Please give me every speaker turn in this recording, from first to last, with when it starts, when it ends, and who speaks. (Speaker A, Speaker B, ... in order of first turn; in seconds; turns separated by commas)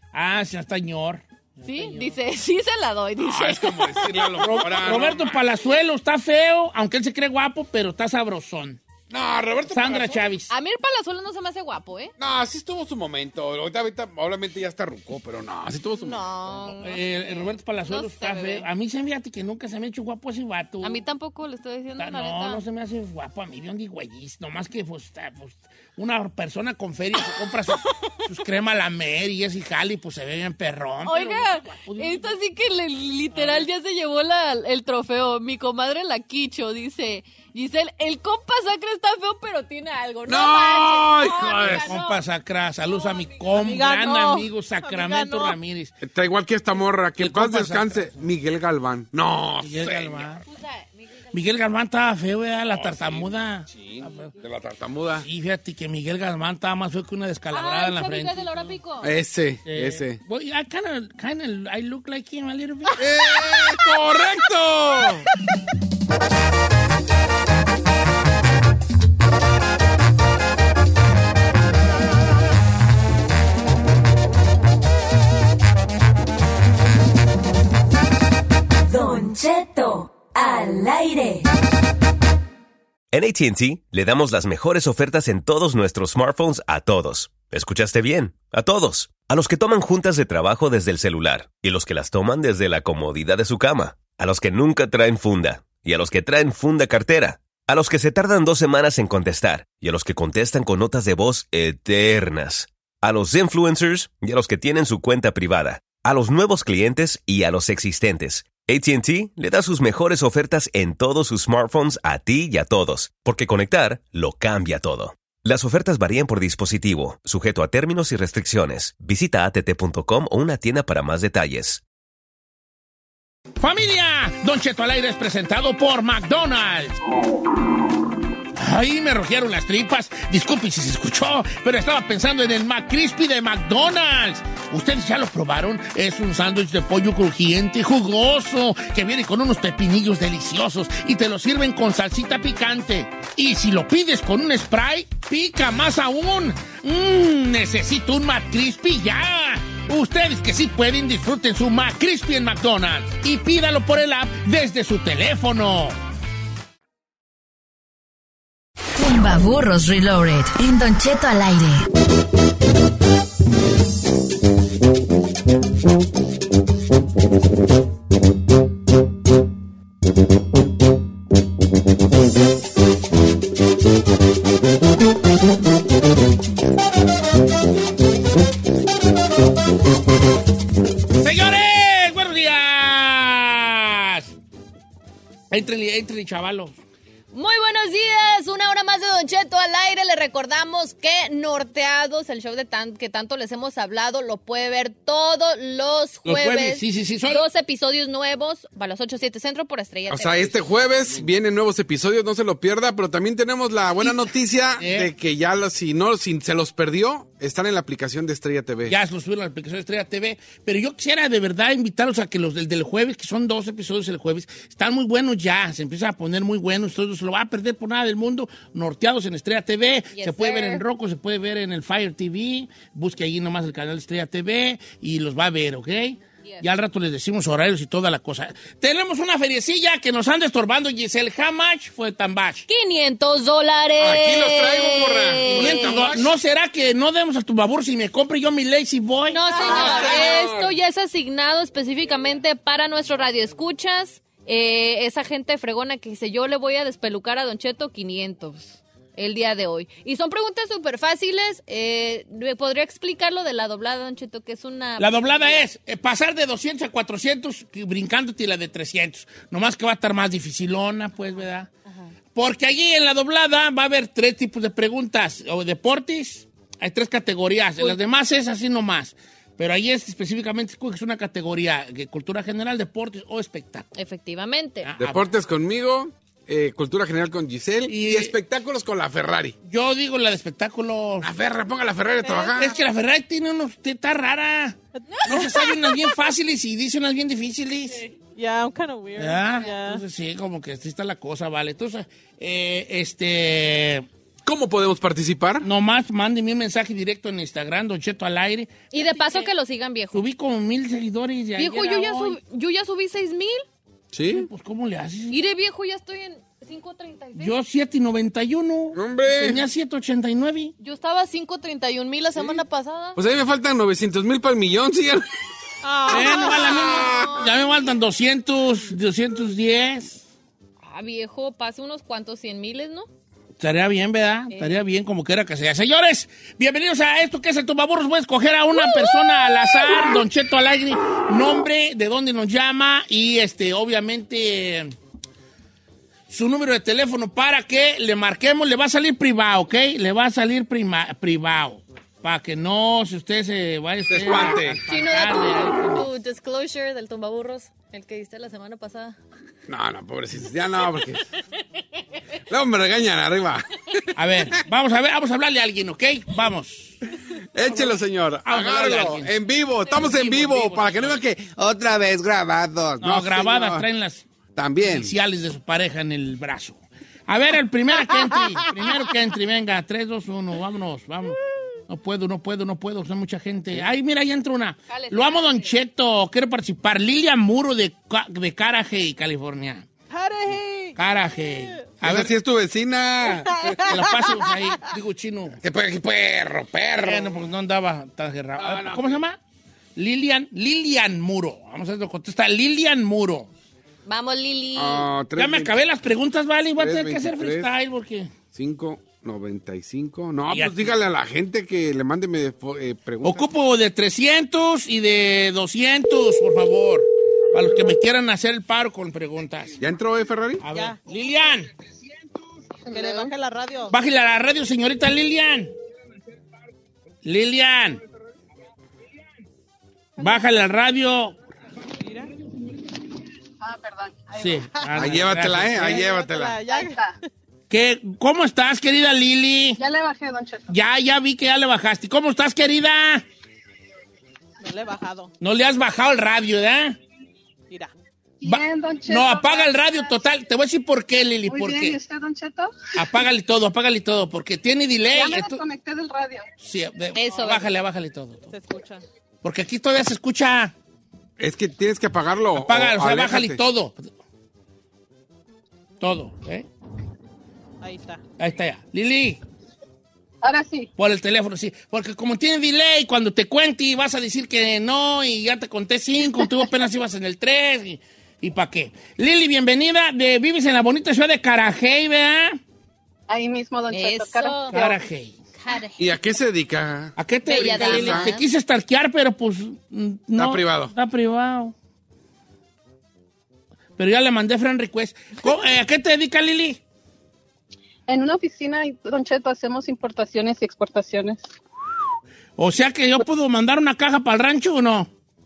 Speaker A: 0.1-2.2, Speaker B: 1.6-5.0, Speaker C: 3.2-5.4, Speaker A: 4.4-8.8, Speaker C: 9.1-10.2, Speaker A: 9.7-10.5, Speaker B: 10.5-12.1, Speaker C: 12.2-16.6, Speaker B: 15.9-18.7, Speaker A: 16.8-21.0, Speaker B: 20.8-22.6, Speaker A: 22.0-32.4, Speaker B: 31.1-42.2, Speaker A: 33.3-33.7, Speaker C: 40.3-41.9, Speaker A: 41.6-45.9, Speaker B: 42.9-43.8, Speaker D: 43.6-45.6, Speaker C: 46.0-50.4, Speaker A: 47.2-48.3, Speaker A: 49.6-50.4, Speaker B: 50.5-51.5, Speaker A: 51.3-54.3, Speaker C: 52.7-55.3, Speaker A: 55.2-58.7, Speaker B: 57.5-59.1, Speaker C: 59.0-60.2, Speaker A: 59.6-63.0, Speaker C: 63.0-65.2, Speaker E: 78.9-81.5, Speaker F: 83.1-121.8, Speaker A: 123.6-127.0, Speaker A: 128.6-156.0, Speaker B: 159.0-161.3, Speaker E: 159.1-159.4, Speaker E: 160.5-161.7, Speaker A: 181.2-184.3, Speaker A: 185.5-186.8, Speaker B: 187.3-200.8, Speaker A: 196.2-197.4, Speaker C: 200.1-208.9, Speaker A: 204.0-205.1, Speaker A: 208.9-232.7, Speaker B: 220.1-220.8, Speaker B: 232.7-236.1, Speaker C: 234.0-236.3, Speaker A: 235.5-240.3, Speaker B: 239.3-255.7, Speaker C: 239.6-240.7, Speaker A: 255.0-261.7, Speaker A: 262.4-273.9, Speaker B: 273.9-274.9, Speaker A: 274.8-275.3, Speaker C: 275.0-279.6, Speaker A: 277.9-278.3, Speaker A: 279.6-281.3, Speaker C: 281.2-282.7, Speaker D: 282.2-282.7, Speaker A: 282.6-288.0, Speaker D: 284.9-285.7, Speaker D: 288.4-290.0, Speaker A: 289.2-294.1, Speaker C: 294.4-295.7, Speaker A: 295.6-299.5, Speaker B: 298.9-300.2, Speaker A: 300.1-302.4, Speaker B: 301.6-303.6, Speaker C: 304.1-304.5, Speaker A: 304.3-305.4, Speaker B: 305.3-307.6, Speaker A: 307.4-310.7, Speaker C: 308.9-309.6, Speaker B: 310.8-313.2, Speaker C: 313.1-315.2, Speaker D: 315.8-316.8, Speaker A: 316.1-320.2, Speaker C: 316.1-317.5, Speaker B: 316.4-317.6, Speaker B: 320.8-323.1, Speaker A: 323.6-334.9, Speaker B: 324.5-324.8, Speaker A: 336.3-346.1, Speaker C: 344.1-344.8, Speaker B: 344.9-349.2, Speaker C: 349.7-351.2, Speaker C: 352.5-354.1, Speaker A: 354.1-357.0, Speaker C: 357.5-363.9, Speaker A: 357.6-359.4, Speaker A: 359.9-361.2, Speaker A: 363.0-364.2, Speaker C: 364.6-365.1, Speaker A: 364.8-379.9, Speaker B: 374.9-375.8, Speaker D: 380.1-381.0, Speaker A: 380.9-382.4, Speaker C: 382.0-384.0, Speaker D: 383.2-384.5, Speaker A: 383.8-385.6, Speaker C: 385.6-387.4, Speaker A: 387.0-389.4, Speaker C: 388.6-389.1, Speaker A: 389.9-393.5, Speaker B: 394.1-395.1, Speaker C: 394.8-395.7, Speaker A: 395.4-398.4, Speaker C: 396.8-397.7, Speaker C: 398.5-403.4, Speaker A: 400.5-400.9, Speaker A: 403.2-409.8, Speaker C: 409.8-410.6, Speaker A: 410.6-411.7, Speaker D: 410.7-411.0, Speaker G: 412.9-413.3, Speaker D: 412.9-413.9, Speaker A: 413.9-415.7, Speaker A: 417.2-418.0, Speaker A: 420.2-421.4, Speaker D: 422.0-422.3, Speaker G: 423.6-424.6, Speaker A: 424.3-426.0, Speaker C: 424.9-426.6, Speaker D: 425.8-427.0, Speaker G: 426.7-427.1, Speaker A: 427.7-429.8, Speaker G: 429.8-430.7, Speaker A: 430.7-433.2, Speaker D: 434.6-435.3, Speaker A: 435.4-437.0, Speaker G: 438.4-440.2, Speaker A: 438.4-442.0, Speaker G: 441.5-442.8, Speaker A: 442.9-445.6, Speaker G: 445.1-446.4, Speaker A: 446.6-448.5, Speaker B: 447.1-447.7, Speaker D: 448.5-449.0, Speaker A: 449.4-450.7, Speaker C: 451.4-453.6, Speaker A: 452.5-454.1, Speaker A: 456.0-456.7, Speaker D: 457.8-458.2, Speaker A: 458.4-459.4, Speaker G: 460.4-460.9, Speaker A: 461.0-472.6, Speaker G: 473.3-474.9, Speaker B: 473.9-474.8, Speaker A: 474.7-475.4, Speaker B: 475.6-476.1, Speaker C: 476.0-478.3, Speaker A: 477.2-481.7, Speaker B: 477.4-478.4, Speaker C: 480.4-480.9, Speaker A: 484.0-486.8, Speaker G: 488.1-491.4, Speaker A: 492.6-495.1